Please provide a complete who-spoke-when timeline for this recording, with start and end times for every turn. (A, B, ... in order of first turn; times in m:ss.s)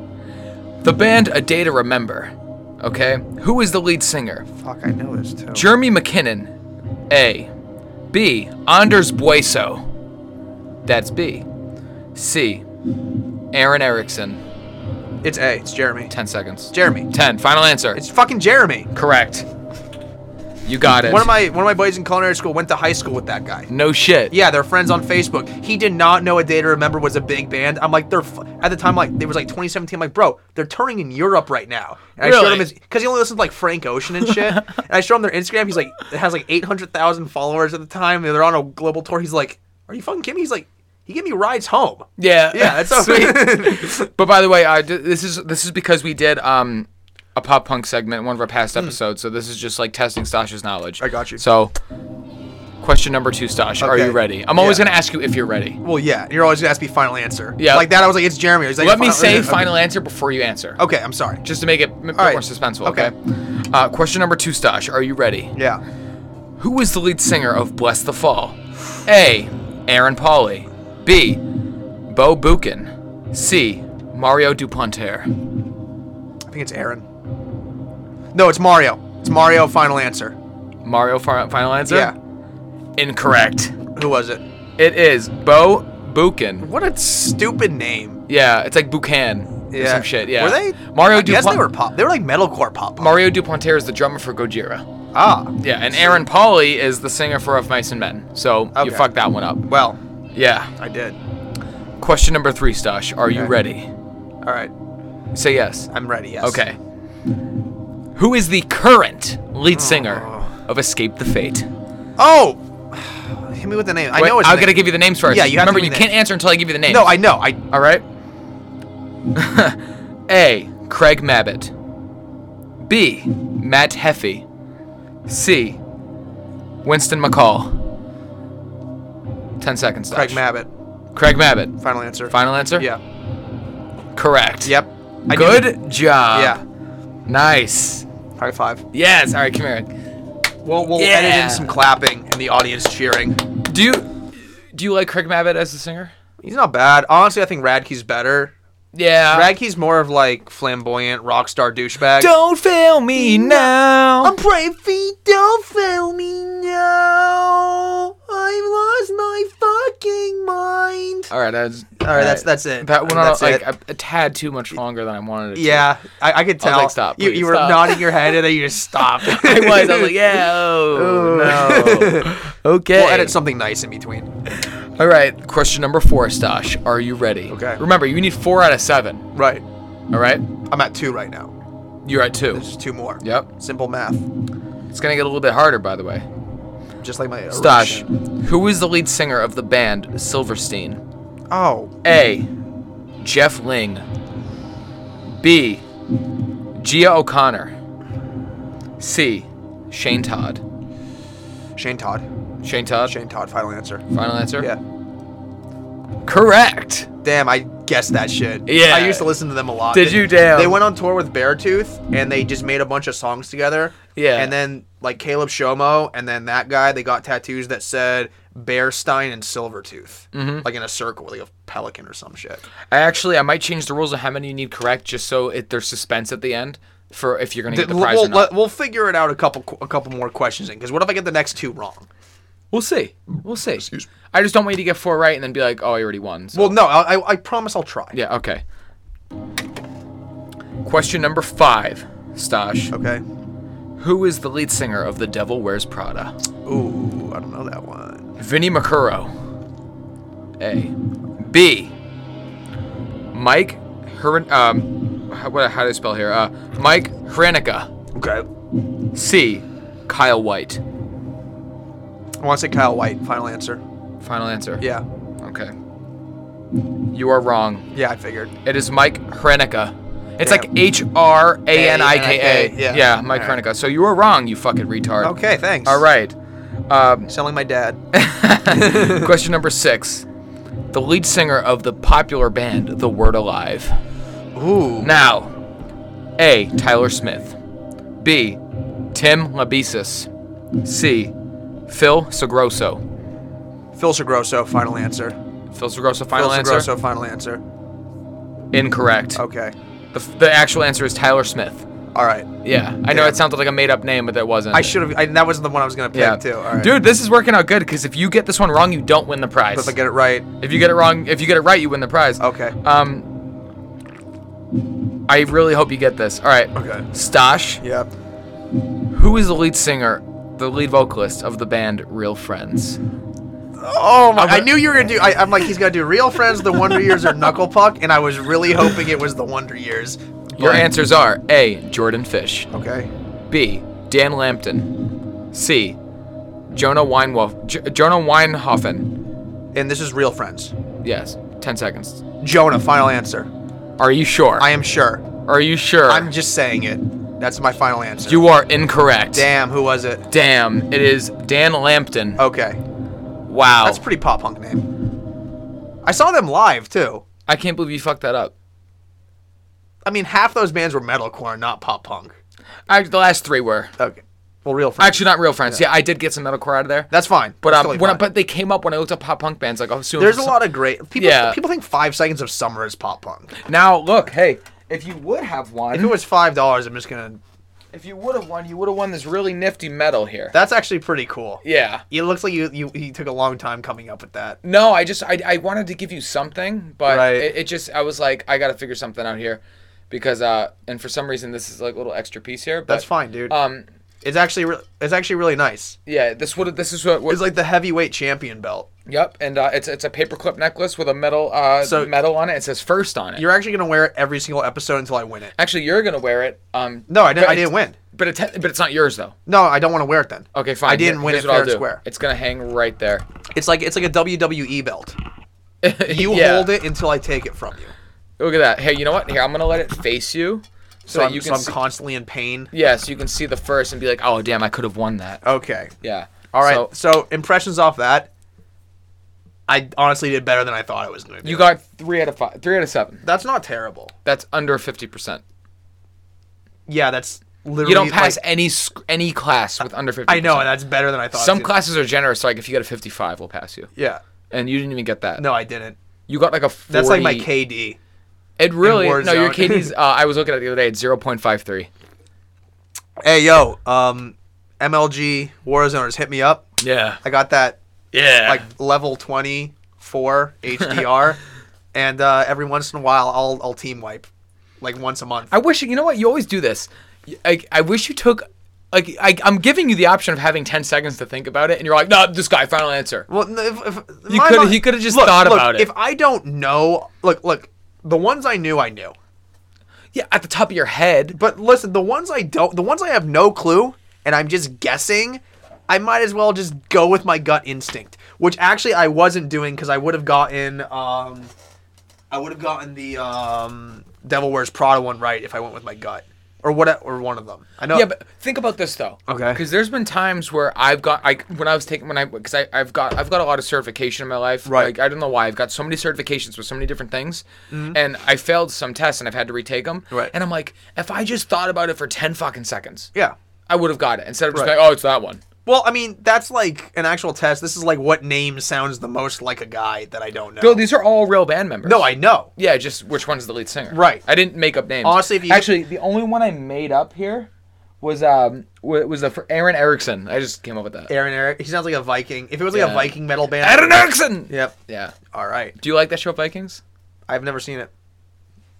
0:00.8-0:04.4 A
0:04.5-0:05.7 B
0:05.5-0:06.5 A
0:07.1-0:07.5 A
0:08.1-0:09.9 A
0:10.8-0:11.5 A
0:12.1-0:12.6 A
0:13.5-0:14.4 A
0:15.2-0:16.1 B
0:16.1-0:18.0 A
0:16.7-0:17.1 B
0:17.9-0:18.9 B
0:18.9-0:19.5 A
0:20.6-0:21.3 A
0:21.0-0:23.7 B
0:23.7-0:24.3 A
0:24.3-0:44.1 B
0:32.2-0:32.7 A
0:34.2-0:34.8 A
0:42.2-0:51.7 A
0:51.0-0:51.4 B
0:52.8-0:55.8 A
0:53.8-0:54.8 B
0:55.8-0:59.7 B
0:57.6-0:57.9 A
0:58.8-1:00.8 A
1:00.8-1:01.4 B
1:01.4-1:03.1 A
1:02.1-1:03.1 B
1:03.7-1:05.5 A
1:05.5-1:05.8 B
1:06.6-1:11.4 A
1:12.1-1:15.3 A
1:16.5-1:17.0 B
1:18.3-1:20.4 B
1:20.8-1:22.1 A
1:21.9-1:22.2 B
1:23.0-1:23.8 A
1:23.9-1:24.4 B
1:24.8-1:26.7 A
1:26.6-1:28.2 B
1:28.3-1:31.6 A
1:29.7-1:33.2 B
1:33.0-1:34.9 A
1:35.1-1:36.2 B
1:35.6-1:39.7 A
1:38.7-1:39.1 B
1:39.7-1:40.0 B
1:40.3-1:40.7 A
1:40.8-1:41.2 B
1:42.0-1:43.9 A
1:44.4-1:44.7 B
1:45.3-1:45.9 A
1:45.9-1:46.6 B
1:46.4-1:46.8 A
1:48.2-1:51.7 A
1:49.7-1:50.5 B
1:52.2-1:56.1 B
1:54.1-1:58.0 A
1:56.9-1:57.6 B
1:59.3-2:01.7 A
2:02.8-2:04.4 A
2:05.3-2:05.8 A
2:06.8-2:07.8 A
2:09.6-2:10.4 A
2:10.1-2:10.7 B
2:11.1-2:11.8 A
2:11.8-2:13.0 B
2:12.3-2:12.9 A
2:14.1-2:14.8 A
2:14.6-2:16.6 B
2:15.3-2:16.6 A
2:17.3-2:18.0 A
2:18.4-2:18.8 B
2:18.9-2:19.9 A
2:20.6-2:23.4 B
2:20.9-2:21.8 A
2:23.6-2:26.1 A
2:26.4-2:28.5 B
2:28.9-2:29.5 A
2:29.3-2:32.3 B
2:32.2-2:34.3 A
2:33.1-2:41.3 B
2:41.3-2:45.9 A
2:42.0-2:43.6 B
2:45.5-2:50.2 B
2:46.6-2:48.3 A
2:49.2-2:53.4 A
2:50.9-2:52.3 B
2:52.9-2:54.3 B
2:54.5-2:59.3 A
2:57.5-2:57.8 B
2:59.3-2:59.6 B
3:00.1-3:00.4 A
3:00.7-3:01.5 B
3:02.0-3:02.6 A
3:02.5-3:04.2 B
3:03.2-3:03.5 A
3:04.9-3:06.2 A
3:07.0-3:08.0 B
3:07.5-3:11.0 A
3:11.5-3:11.9 B
3:12.0-3:12.5 A
3:13.2-3:14.0 A
3:15.4-3:15.8 A
3:16.8-3:17.8 A
3:19.0-3:20.6 A
3:21.8-3:22.2 B
3:22.6-3:23.1 A
3:23.0-3:24.0 B
3:24.1-3:24.7 A
3:26.2-3:27.1 A
3:27.2-3:42.6 B
3:28.7-3:29.3 A
3:29.9-3:30.8 A
3:34.2-3:34.5 A
3:40.3-3:40.7 A
3:42.9-3:48.5 A
3:47.7-3:52.1 B
3:52.7-3:56.8 A
3:56.5-3:58.2 B
3:58.1-3:58.6 A
4:00.8-4:02.9 A
4:02.9-4:03.2 B
4:04.0-4:06.3 A
4:06.6-4:08.3 B
4:08.4-4:09.3 A
4:10.6-4:11.9 A
4:13.3-4:17.9 A
4:18.1-4:18.5 B
4:19.1-4:20.8 A
4:22.4-4:23.8 B
4:24.2-4:24.9 A
4:24.8-4:25.0 B
4:25.4-4:25.7 A
4:27.1-4:27.9 A
4:27.9-4:28.5 B
4:28.6-4:36.4 A
4:30.4-4:30.7 B
4:31.7-4:33.6 B
4:35.2-4:36.0 B
4:36.9-4:37.3 A
4:37.3-4:38.0 B
4:38.1-4:40.2 A
4:38.7-4:39.3 B
4:40.9-4:44.0 A
4:44.5-4:45.1 B
4:45.0-4:45.5 A
4:46.4-4:47.6 A
4:48.2-4:48.6 A
4:49.1-4:50.3 A
4:50.8-4:51.3 A
4:51.9-4:53.0 A
4:53.9-4:55.4 B
4:55.7-4:56.9 A
4:56.3-4:57.6 B
4:58.7-4:59.4 A
4:59.3-4:59.7 B
5:00.1-5:01.9 A
5:02.1-5:02.5 B
5:02.6-5:05.0 A
5:03.1-5:03.4 B
5:04.7-5:06.9 B
5:06.1-5:10.0 A
5:09.7-5:10.4 B
5:10.6-5:13.3 A
5:12.4-5:12.8 B
5:15.3-5:17.8 A
5:16.7-5:17.0 B
5:17.8-5:18.1 B
5:19.1-5:23.0 A
5:23.8-5:30.9 B
5:24.4-5:24.7 A
5:30.6-5:32.7 A
5:32.7-5:33.1 B
5:33.5-5:35.0 A
5:35.5-5:36.0 A
5:36.7-5:39.1 A
5:39.7-5:40.7 B
5:41.0-5:42.2 A
5:42.4-5:43.5 B
5:44.0-5:44.7 A
5:44.6-5:45.3 B
5:45.4-5:46.3 A
5:46.1-5:48.4 B
5:48.3-5:49.5 A
5:49.3-5:50.2 B
5:50.3-5:52.4 A
5:52.4-5:52.8 B
5:53.5-5:54.0 A
5:53.8-5:54.8 B
5:56.0-5:57.2 B
5:57.5-5:58.5 A
6:00.0-6:02.4 B
6:02.9-6:03.9 A
6:04.0-6:05.8 B
6:05.0-6:10.6 A
6:07.1-6:08.2 B
6:10.2-6:13.5 B
6:11.2-6:11.6 A
6:13.6-6:16.1 A
6:15.9-6:17.4 B
6:17.9-6:20.5 A
6:20.5-6:24.6 B
6:21.6-6:22.0 A
6:24.6-6:33.8 A
6:27.1-6:27.5 B
6:32.9-6:33.5 B
6:34.2-6:36.0 B
6:36.0-6:37.4 A
6:37.3-6:38.9 B
6:39.1-6:43.5 A
6:41.8-6:42.1 B
6:43.4-6:45.5 B
6:45.6-6:49.4 A
6:47.1-6:48.0 B
6:49.4-6:52.0 B
6:50.5-6:53.2 A
6:53.5-6:55.2 B
6:55.8-6:56.7 A
6:56.1-6:57.9 B
6:58.4-7:01.8 A
7:01.1-7:02.7 B
7:02.7-7:05.4 A
7:05.4-7:05.9 B
7:06.0-7:06.9 A
7:06.5-7:08.3 B
7:09.7-7:11.7 B
7:11.4-7:13.2 A
7:13.2-7:14.1 B
7:14.2-7:15.4 A
7:16.9-7:18.4 B
7:17.8-7:20.7 A
7:20.3-7:21.7 B
7:21.3-7:23.9 A
7:23.9-7:24.2 B
7:24.5-7:25.4 A
7:25.4-7:26.0 B
7:26.3-7:27.5 A
7:26.9-7:28.0 B
7:28.6-7:31.9 A
7:28.8-7:29.9 B
7:33.2-7:36.7 B
7:36.8-7:37.2 A
7:37.2-7:37.8 B
7:38.1-7:38.7 A
7:38.4-7:41.4 B
7:41.9-7:44.3 B
7:44.8-7:45.5 B
7:45.5-7:53.3 A
7:53.3-7:59.1 B
7:54.3-7:55.9 A
8:00.1-8:01.4 A
8:01.3-8:11.5 B
8:12.3-8:18.1 B
8:17.9-8:33.1 A
8:19.3-8:19.6 B
8:24.6-8:24.9 B
8:27.7-8:28.0 B
8:33.7-8:35.4 A
8:35.6-8:40.8 B
8:40.6-8:47.5 A
8:41.8-8:42.5 B
8:43.9-8:44.2 B
8:45.0-8:45.7 B
8:48.0-8:51.1 A
8:51.1-8:54.7 B
8:52.7-8:55.2 A
8:55.3-8:55.8 B
8:55.8-8:56.8 A
8:57.3-8:57.9 B